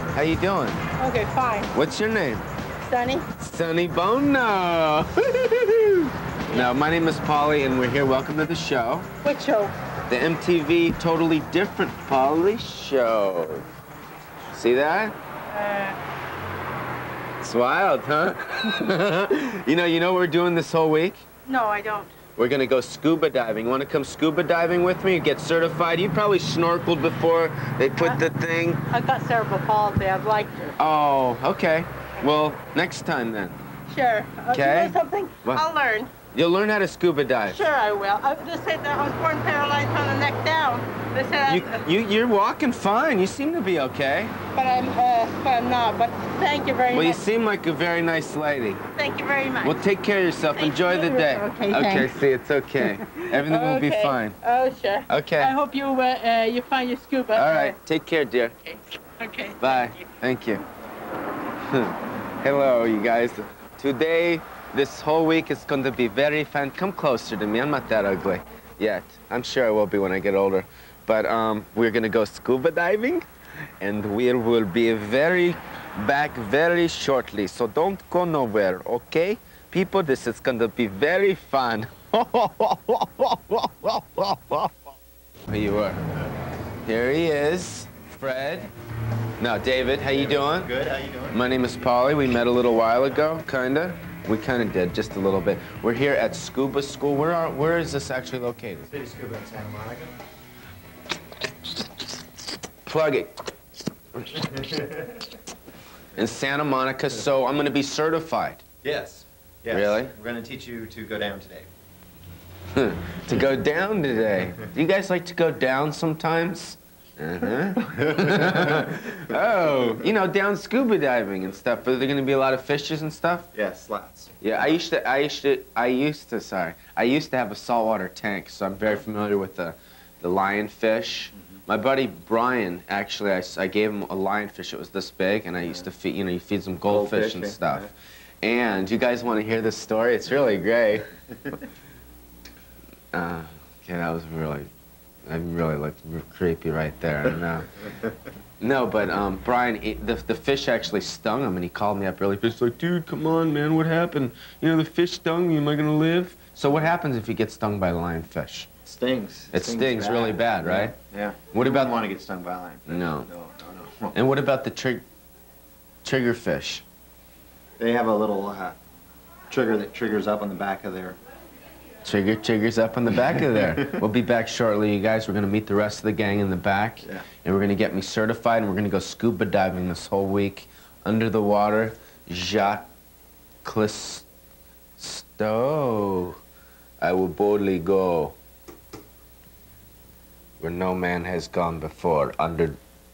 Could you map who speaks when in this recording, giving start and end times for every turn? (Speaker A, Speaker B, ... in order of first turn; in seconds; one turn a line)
Speaker A: 0.1-0.8
Speaker B: 1.0-1.7
Speaker A: 1.7-2.5
Speaker B: 2.8-3.3
Speaker A: 3.4-9.1
Speaker B: 9.2-9.7
Speaker A: 10.1-13.6
Speaker A: 14.5-15.1
Speaker B: 15.5-16.0
Speaker A: 17.4-21.2
Speaker B: 21.4-22.1
Speaker A: 22.4-28.8
Speaker B: 28.9-30.8
Speaker A: 30.8-33.6
Speaker B: 33.9-36.1
Speaker A: 34.5-35.6
Speaker A: 36.3-37.6
Speaker B: 37.5-41.9
Speaker A: 41.5-44.4
Speaker B: 44.5-47.2
Speaker A: 46.9-48.8
Speaker B: 49.0-49.8
Speaker A: 49.6-54.4
Speaker B: 50.5-52.1
Speaker B: 52.8-57.8
Speaker A: 55.1-55.5
Speaker A: 57.3-58.5
Speaker B: 58.6-60.0
Speaker A: 59.6-60.6
Speaker A: 61.7-73.3
Speaker A: 73.8-84.8
Speaker A: 85.5-86.0
Speaker A: 86.8-88.7
Speaker A: 89.4-90.7
Speaker C: 90.1-91.4
Speaker A: 91.3-98.9
Speaker C: 98.9-100.1
Speaker A: 102.8-103.3
Speaker A: 104.2-104.5
Speaker C: 104.3-105.2
Speaker A: 106.2-108.6
Speaker C: 108.8-111.7
Speaker A: 109.7-110.1
Speaker A: 112.7-123.5
Speaker C: 117.4-120.1
Speaker C: 123.5-124.4
Speaker A: 124.4-141.1
Speaker C: 136.9-137.9
Speaker A: 143.1-144.7
Speaker A: 145.2-147.8
Speaker A: 148.6-158.7
Speaker C: 158.8-164.2
Speaker A: 159.5-160.9
Speaker A: 161.5-161.9
Speaker A: 162.9-163.3
Speaker A: 164.1-165.0
Speaker A: 166.0-166.8
Speaker C: 167.8-168.8
Speaker C: 169.5-171.2
Speaker A: 172.0-182.9
Speaker C: 173.1-174.0
Speaker A: 183.6-184.2
Speaker A: 185.0-186.4
Speaker A: 187.0-188.3
Speaker A: 190.6-192.8